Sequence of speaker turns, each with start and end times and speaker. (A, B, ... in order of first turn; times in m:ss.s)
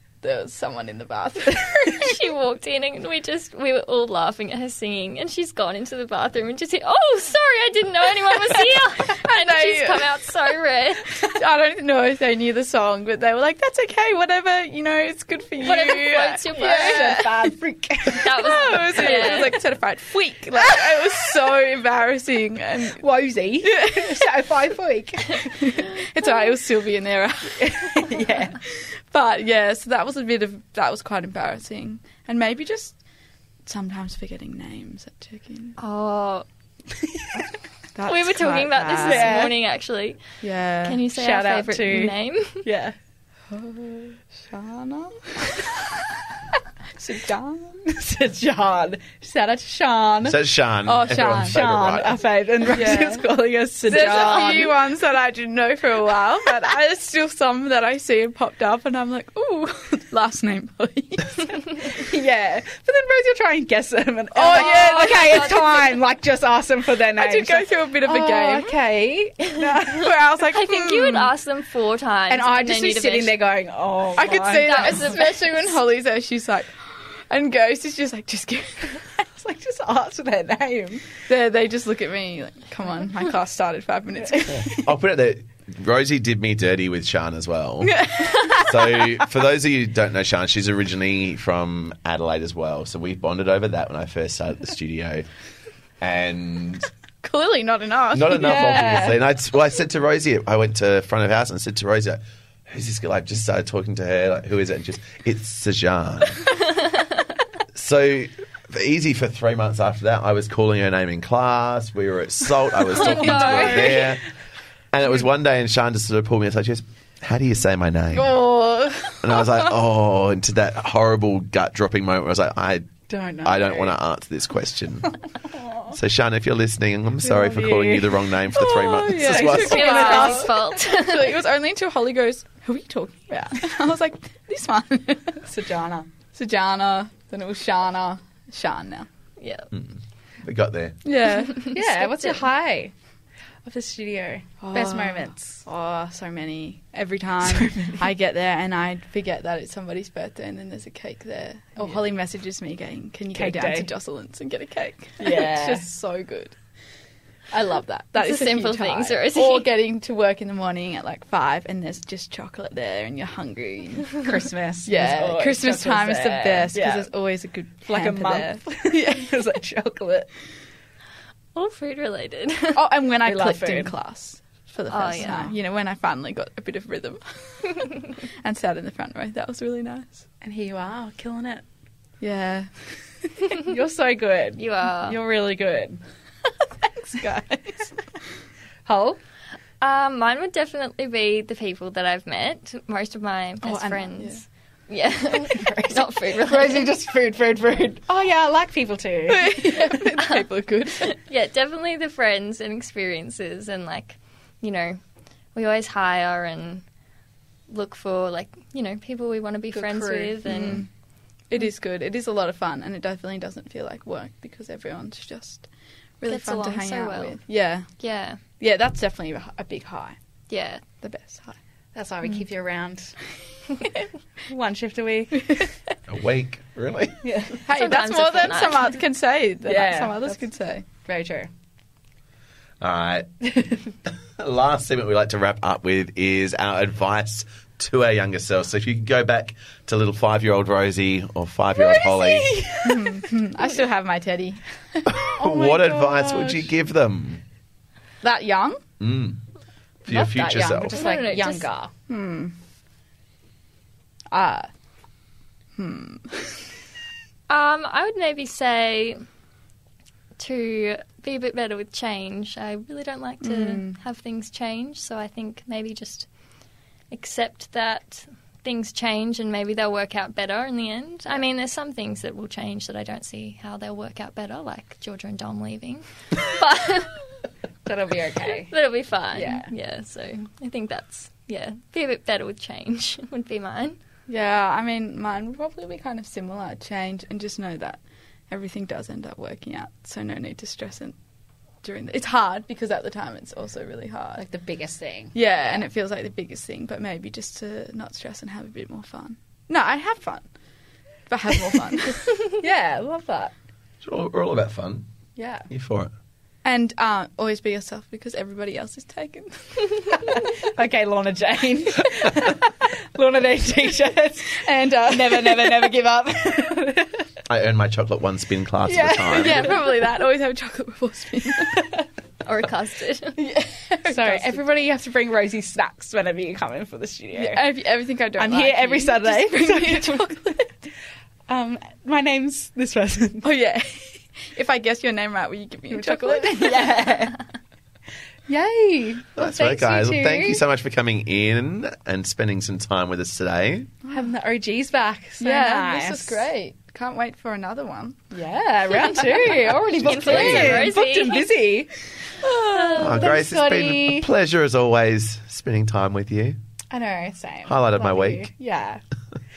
0:00.2-0:02.2 A
0:01.8-0:11.3 B
0:09.1-0:10.1 A
0:11.2-0:17.4 A
0:15.6-0:17.2 B
0:16.6-0:19.5 C
0:18.1-0:19.6 B
0:18.2-0:23.0 A
0:23.0-0:25.8 C
0:23.6-0:24.3 A
0:25.6-0:33.0 A
0:27.6-0:28.6 C
0:33.6-0:35.8 A
0:35.8-0:36.5 B
0:37.0-0:37.3 C
0:38.0-0:39.5 A
0:38.0-0:42.6 B
0:39.0-0:39.6 C
0:40.4-0:41.0 A
0:41.1-0:43.0 C
0:43.5-0:45.8 A
0:47.0-0:47.8 A
0:47.8-0:50.4 C
0:50.2-0:52.2 D
0:50.8-0:51.6 A
0:51.4-0:54.8 C
0:52.7-0:53.3 A
0:53.8-1:01.9 A
0:54.0-0:54.6 B
1:01.9-1:10.2 C
1:04.3-1:05.6 A
1:04.4-1:06.0 B
1:07.2-1:08.8 A
1:09.9-1:11.3 A
1:10.5-1:13.4 B
1:12.3-1:15.2 C
1:14.1-1:19.2 A
1:14.4-1:15.8 B
1:19.4-1:21.0 C
1:21.3-1:24.9 A
1:24.5-1:35.3 D
1:27.9-1:28.4 A
1:36.0-1:36.9 D
1:37.2-1:39.1 A
1:38.1-1:46.4 D
1:38.4-1:39.2 C
1:47.8-1:54.2 D
1:52.9-1:54.1 B
1:53.0-1:54.1 C
1:54.9-1:58.4 D
1:58.1-1:59.7 A
1:59.2-2:05.2 D
2:03.1-2:04.0 C
2:05.9-2:10.0 D
2:07.2-2:08.1 C
2:08.5-2:15.5 A
2:09.1-2:10.8 C
2:09.4-2:11.4 B
2:13.3-2:13.7 C
2:15.5-2:16.1 C
2:16.3-2:19.1 A
2:19.4-2:19.7 B
2:19.7-2:21.0 D
2:21.0-2:22.3 A
2:21.6-2:22.2 B
2:21.7-2:22.9 C
2:23.6-2:25.6 C
2:24.6-2:36.6 A
2:27.4-2:28.0 C
2:33.3-2:33.9 C
2:35.2-2:35.8 C
2:37.5-2:44.2 A
2:38.2-2:39.7 B
2:44.2-2:47.1 C
2:44.8-2:49.4 A
2:47.9-2:50.3 C
2:51.6-2:52.9 B
2:52.8-3:00.2 A
2:53.2-2:53.9 C
2:54.9-2:55.5 B
3:00.4-3:01.6 C
3:02.2-3:02.7 A
3:03.5-3:06.0 C
3:04.6-3:05.2 B
3:06.9-3:07.9 A
3:08.9-3:09.2 C
3:09.8-3:16.9 B
3:13.6-3:14.4 A
3:15.5-3:20.0 C
3:19.3-3:21.1 A
3:21.0-3:25.0 B
3:25.6-3:26.8 B
3:27.7-3:30.8 B
3:29.7-3:30.7 C
3:30.4-3:30.9 A
3:31.5-3:35.7 A
3:36.2-3:37.9 A
3:36.3-3:37.4 B
3:38.0-3:38.4 B
3:38.6-3:40.2 A
3:40.5-3:40.8 B
3:41.0-3:41.6 A
3:41.9-3:43.2 C
3:44.5-3:45.7 C
3:46.1-3:47.3 D
3:47.2-3:47.6 C
3:47.6-3:50.8 A
3:47.7-3:49.0 B
3:49.7-3:50.4 C
3:51.0-3:51.5 C
3:52.8-3:53.3 D
3:54.4-4:02.5 D
4:01.8-4:03.3 C
4:02.8-4:05.3 A
4:05.1-4:07.4 D
4:05.4-4:06.6 C
4:08.2-4:08.8 A
4:09.0-4:09.4 D
4:10.1-4:11.0 D
4:10.1-4:11.9 C
4:10.9-4:11.7 B
4:12.1-4:12.5 A
4:14.3-4:14.7 A
4:15.8-4:16.7 A
4:17.5-4:19.2 B
4:20.4-4:26.3 B
4:23.4-4:24.0 A
4:27.1-4:37.2 B
4:37.9-4:38.7 C
4:38.5-4:44.0 B
4:39.3-4:39.7 C
4:44.3-4:51.2 A
4:51.8-4:54.4 A
4:54.4-4:55.4 C
4:55.3-5:00.5 A
5:01.3-5:02.2 A
5:02.3-5:03.5 C
5:04.0-5:05.1 D
5:05.4-5:05.7 C
5:05.7-5:06.1 D
5:06.6-5:10.4 A
5:10.2-5:17.3 C
5:14.5-5:16.1 A
5:17.5-5:19.8 D
5:18.9-5:19.7 C
5:19.3-5:21.9 A
5:22.4-5:23.4 B
5:23.4-5:24.6 A
5:24.1-5:27.6 C
5:27.3-5:30.7 A
5:28.4-5:30.3 C
5:31.5-5:33.5 C
5:33.4-5:37.1 A
5:35.9-5:37.4 C
5:38.5-5:40.6 C
5:39.4-5:43.9 D
5:44.1-5:46.4 C
5:45.4-5:48.2 A
5:48.3-5:51.9 C
5:49.0-5:49.6 A
5:49.9-5:51.7 B
5:50.0-5:50.9 D
5:52.4-5:53.3 A
5:52.7-5:54.3 C
5:53.0-5:56.6 D
5:56.9-5:59.0 C
5:57.7-5:58.5 D